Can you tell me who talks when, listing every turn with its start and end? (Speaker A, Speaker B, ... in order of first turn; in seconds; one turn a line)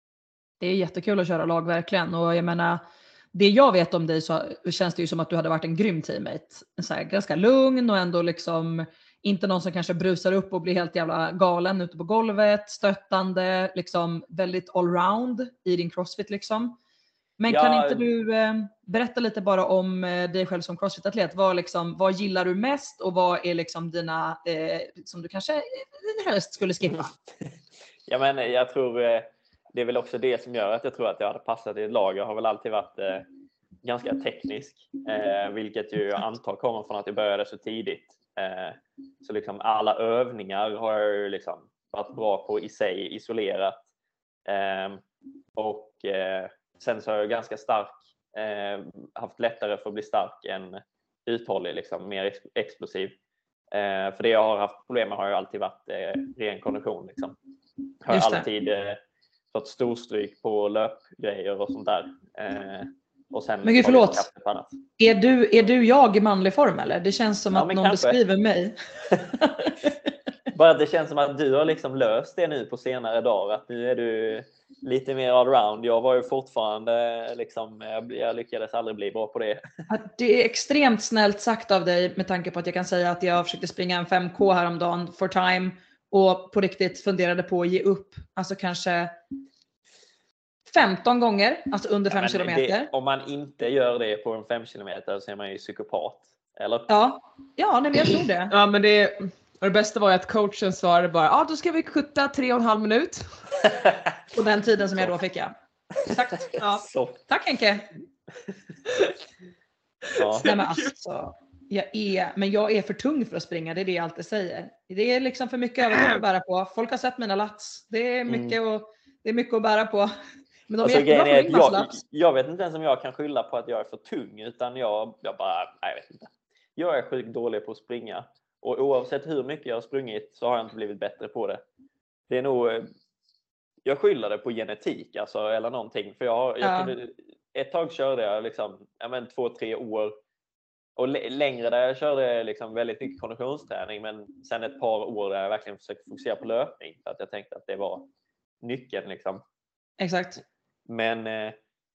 Speaker A: 0.6-2.8
Speaker A: 3.3-16.8
Speaker A: 17.4-27.1
Speaker B: 17.5-18.1
Speaker B: 28.1-33.2
Speaker B: 33.8-43.8
Speaker B: 44.5-45.0
Speaker B: 45.5-53.1
Speaker B: 53.7-57.4
Speaker B: 58.0-59.0
Speaker A: 58.1-58.5
Speaker B: 59.5-64.8
Speaker A: 63.6-64.2
Speaker A: 65.0-69.7
Speaker B: 67.5-68.2
Speaker B: 70.5-79.6
Speaker A: 79.9-89.1
Speaker A: 90.7-92.9
Speaker B: 92.1-96.9
Speaker A: 96.9-98.5
Speaker C: 98.5-103.3
Speaker B: 103.7-104.2
Speaker A: 104.3-105.5
Speaker A: 106.0-106.5
Speaker B: 106.6-107.2
Speaker A: 107.3-107.9
Speaker B: 110.2-110.5
Speaker C: 110.3-110.9
Speaker A: 110.4-120.1
Speaker C: 115.9-116.2
Speaker B: 118.3-118.6
Speaker A: 120.7-122.0
Speaker B: 120.8-131.6
Speaker B: 132.3-132.9
Speaker B: 133.8-140.1
Speaker A: 136.6-136.9
Speaker B: 140.9-148.1
Speaker B: 148.6-149.4
Speaker A: 150.0-150.4
Speaker B: 150.9-151.5